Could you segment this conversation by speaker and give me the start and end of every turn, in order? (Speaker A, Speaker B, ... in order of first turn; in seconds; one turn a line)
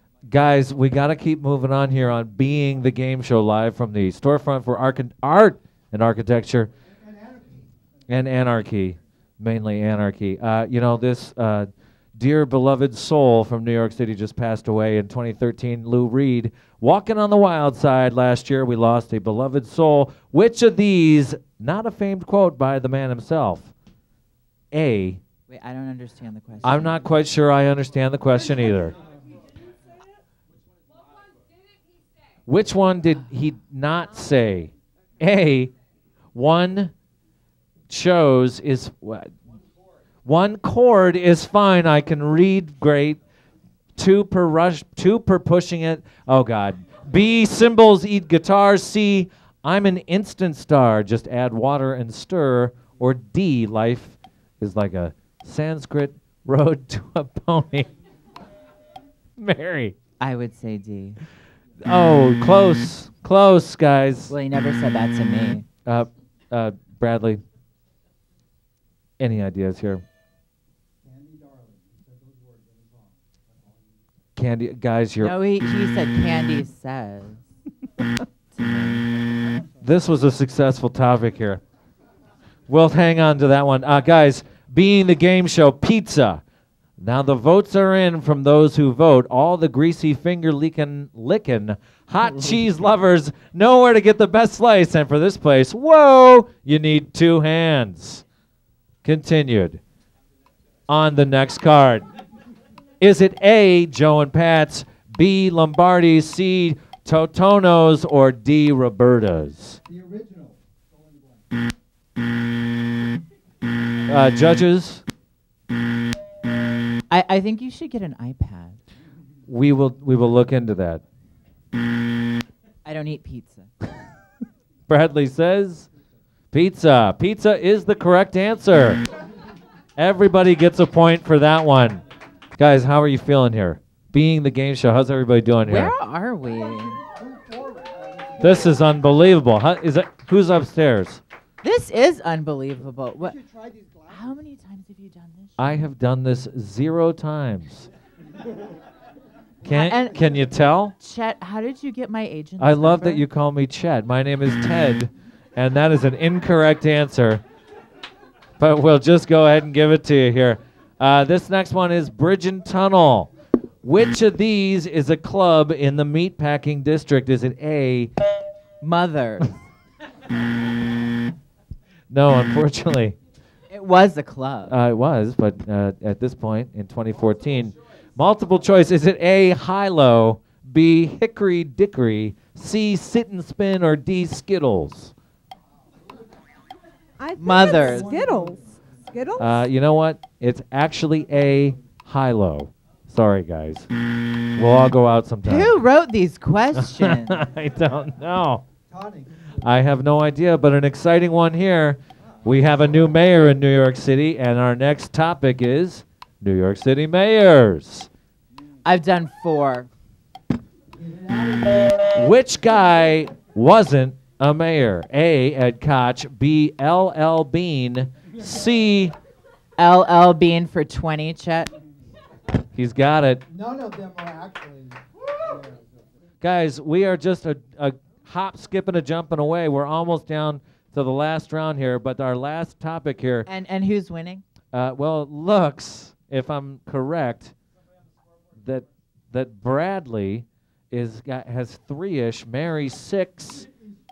Speaker A: 0.2-6.7
Speaker B: 6.8-7.8
Speaker A: 8.1-23.7
Speaker A: 24.7-25.2
Speaker C: 25.5-27.0
Speaker A: 26.6-28.9
Speaker A: 32.5-35.7
Speaker A: 36.3-36.9
Speaker A: 37.9-39.3
Speaker A: 40.2-43.2
Speaker A: 44.0-57.9
Speaker A: 59.4-59.9
Speaker C: 60.2-61.2
Speaker A: 61.8-64.3
Speaker C: 64.3-65.7
Speaker A: 65.8-67.4
Speaker A: 69.2-70.0
Speaker B: 71.0-74.0
Speaker A: 74.4-75.3
Speaker C: 75.2-77.4
Speaker C: 78.5-79.1
Speaker A: 79.8-81.6
Speaker A: 82.7-86.4
Speaker A: 87.0-98.2
Speaker A: 99.0-99.8
Speaker A: 100.9-102.0
Speaker A: 103.0-109.8
Speaker B: 109.9-111.4
Speaker A: 114.1-115.0
Speaker C: 117.1-118.8
Speaker A: 119.5-121.0
Speaker C: 122.8-123.7
Speaker A: 124.9-125.9
Speaker A: 126.5-129.0
Speaker A: 129.9-132.0
Speaker A: 132.6-135.9
Speaker C: 135.6-137.0
Speaker B: 137.0-138.8
Speaker A: 138.4-141.2
Speaker C: 141.6-143.4
Speaker B: 143.2-144.4
Speaker C: 144.1-145.8
Speaker A: 145.6-147.9
Speaker A: 149.6-150.9
Speaker C: 149.7-150.3
Speaker C: 151.0-153.2
Speaker A: 152.6-157.4
Speaker A: 158.6-163.3
Speaker A: 163.8-168.1
Speaker C: 168.8-169.6
Speaker A: 172.1-173.2
Speaker C: 173.7-174.7
Speaker A: 174.7-185.1
Speaker D: 187.2-189.7
Speaker C: 187.4-188.1
Speaker B: 187.4-189.3
Speaker A: 189.4-193.9
Speaker A: 194.5-195.8
Speaker C: 195.4-197.4
Speaker A: 196.7-198.6
Speaker B: 198.9-199.6
Speaker A: 199.6-208.1
Speaker C: 208.8-209.9
Speaker B: 210.9-212.1
Speaker A: 212.1-219.1
Speaker C: 219.8-221.7
Speaker A: 222.7-223.4
Speaker B: 223.5-226.0
Speaker A: 226.4-233.5
Speaker C: 233.4-234.4
Speaker A: 234.7-237.5
Speaker A: 238.6-243.7